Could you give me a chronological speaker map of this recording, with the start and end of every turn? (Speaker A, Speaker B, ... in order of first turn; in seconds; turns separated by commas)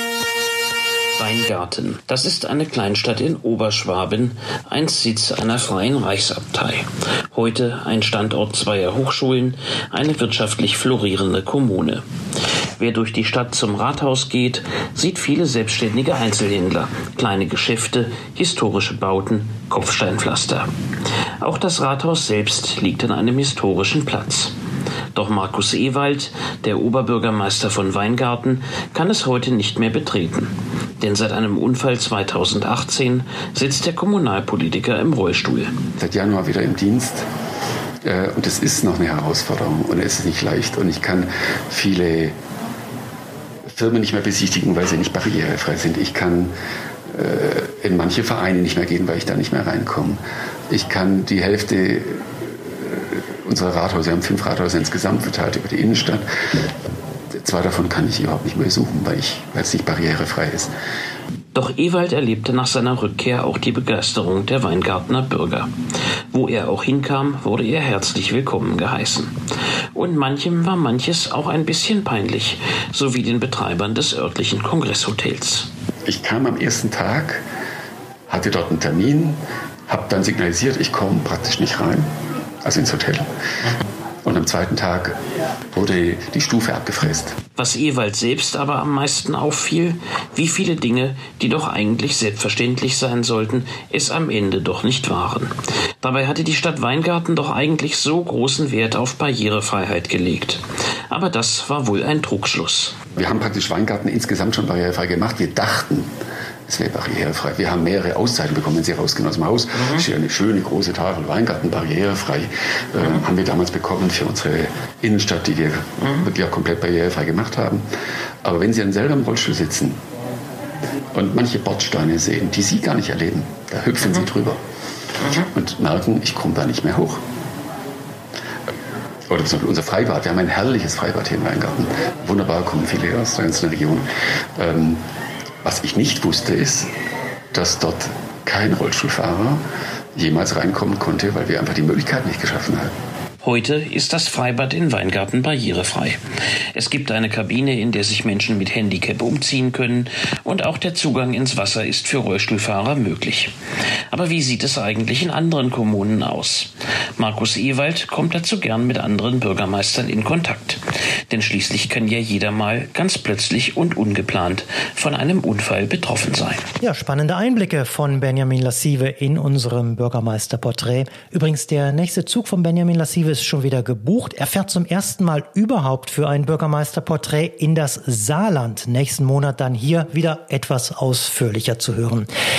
Speaker A: 1.2-12.0, Speaker A: 12.8-20.7, Speaker A: 21.4-24.5, Speaker A: 25.1-35.7, Speaker B: 36.0-37.2, Speaker B: 38.0-42.4, Speaker B: 43.7-46.5, Speaker B: 47.1-50.2, Speaker B: 50.7-56.3, Speaker B: 57.4-60.7, Speaker A: 61.5-65.7, Speaker A: 66.3-69.3, Speaker A: 70.0-75.7, Speaker B: 76.1-77.4, Speaker B: 78.3-82.1, Speaker B: 82.7-83.3, Speaker B: 84.3-85.2, Speaker B: 85.7-87.4, Speaker A: 87.6-95.5, Speaker A: 96.0-103.0, Speaker B: 103.2-106.1, Speaker B: 106.7-117.8, Speaker A: 109.8-110.0, Speaker B: 118.4-120.0, Speaker B: 121.1-124.6, Speaker A: 125.2-125.5, Speaker B: 125.5-127.2, Speaker B: 129.3-134.1, Speaker B: 134.6-135.0, Speaker B: 135.7-136.9, Speaker B: 137.5-139.6, Speaker B: 140.2-142.9, Speaker A: 143.4-146.2, Speaker A: 146.8-153.5, Speaker A: 154.1-166.6, Speaker C: 166.8-182.3